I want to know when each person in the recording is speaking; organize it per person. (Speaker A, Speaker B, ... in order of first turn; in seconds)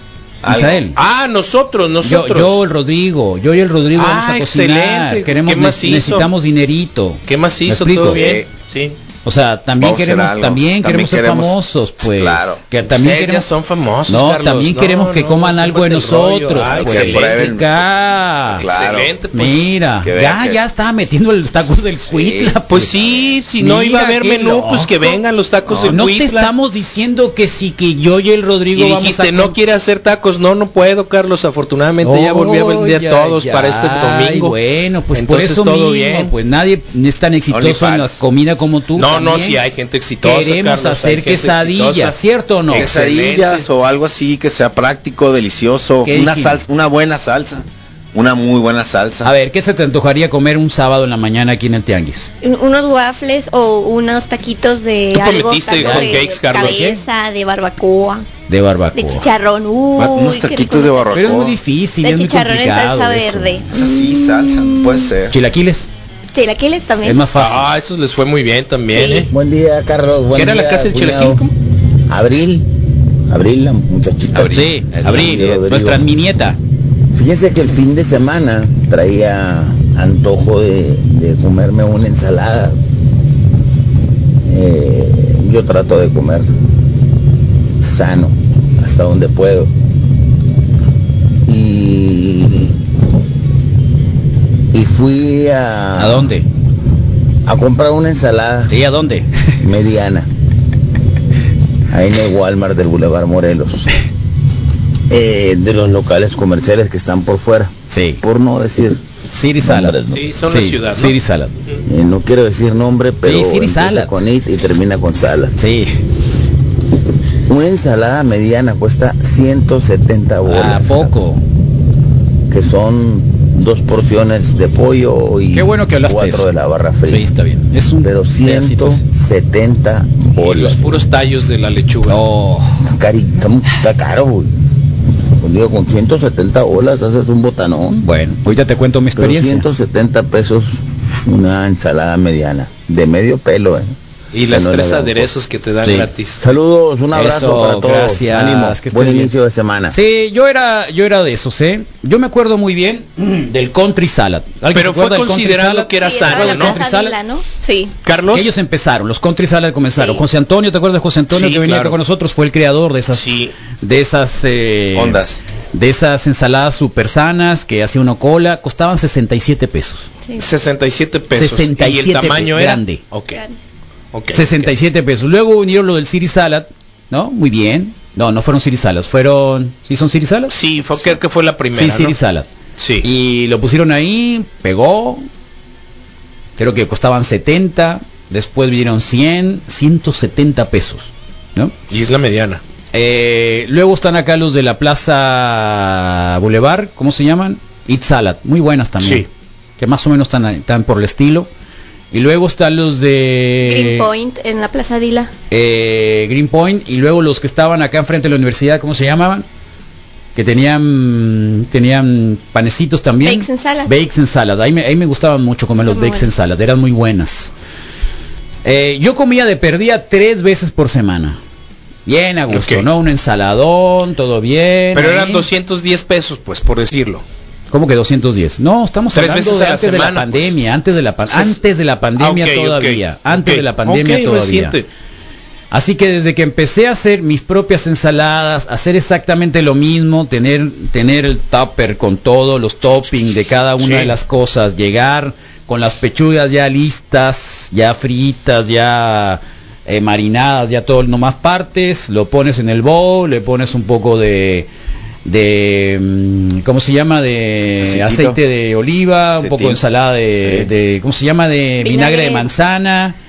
Speaker A: 0.4-0.9, 8.0-8.5, 9.8-12.6, 16.6-17.9, 18.4-19.1, 20.0-20.6, 22.0-23.2, 25.7-26.0, 37.5-38.2, 42.7-47.6, 48.1-49.3, 60.0-61.6, 63.7-65.4, 74.3-75.5, 164.9-165.4, 257.8-258.4, 259.4-259.8, 260.4-260.7
Speaker B: 0.5-0.9, 2.0-8.2, 9.2-13.5, 14.1-18.7, 19.3-22.9, 23.6-25.2, 25.9-29.6, 32.0-39.6, 40.2-42.9, 46.0-46.6, 49.2-52.3, 55.8-57.0, 58.5-59.3, 61.1-63.6, 65.3-65.9, 67.0-67.7, 74.3-76.6, 96.0-96.5, 98.7-99.3, 107.9-108.2, 109.3-110.0, 110.5-111.5, 113.2-114.1, 115.6-115.9, 120.5-121.4, 125.5-126.5, 127.1-129.0, 132.1-132.7, 138.0-139.7, 147.1-149.3, 149.9-157.1, 158.3-163.3, 163.8-165.2, 165.7-170.1, 171.3-173.0, 174.3-180.5, 181.7-182.5, 183.0-185.2, 186.6-191.7, 192.9-199.3, 199.8-201.5, 202.1-204.1, 205.5-209.4, 210.3-217.5, 218.6-221.4, 222.1-225.5, 227.7-234.8, 235.7-254.7, 255.2-263.2
Speaker C: 1.0-2.6, 3.9-6.3, 7.3-9.0, 12.9-17.4, 18.6-19.7, 22.7-26.5, 28.7-34.6, 35.1-36.3, 39.0-42.1, 42.7-43.7, 55.1-56.9, 67.3-69.3, 70.3-71.5, 110.1-111.8, 130.4-132.2, 144.3-146.4, 154.7-156.8, 158.0-158.5, 161.3-162.0, 163.1-163.5, 170.4-173.4, 174.1-174.7, 180.5-182.2, 182.8-183.1, 191.9-192.6, 199.0-199.3, 222.5-222.9, 224.9-227.2, 229.1-230.6, 231.3-231.6, 232.2-234.9, 243.8-244.1
Speaker D: 52.4-58.3, 59.0-61.1, 62.0-65.1, 66.3-67.2, 69.0-69.3, 156.0-158.0, 160.0-160.2, 203.6-205.3, 213.2-213.9, 215.9-216.3, 261.8-262.5
Speaker E: 69.3-71.4, 72.1-72.7, 73.3-74.6, 75.1-76.0, 77.1-82.8, 84.5-86.5, 87.8-89.7, 91.5-92.8, 94.7-96.3, 97.5-98.7, 99.6-100.3, 101.9-103.9, 105.1-109.0, 109.6-110.2, 111.9-115.6, 117.5-121.2, 122.5-127.3, 128.0-130.9, 132.8-134.5, 135.4-138.1, 139.2-143.9, 144.5-145.3, 146.4-150.0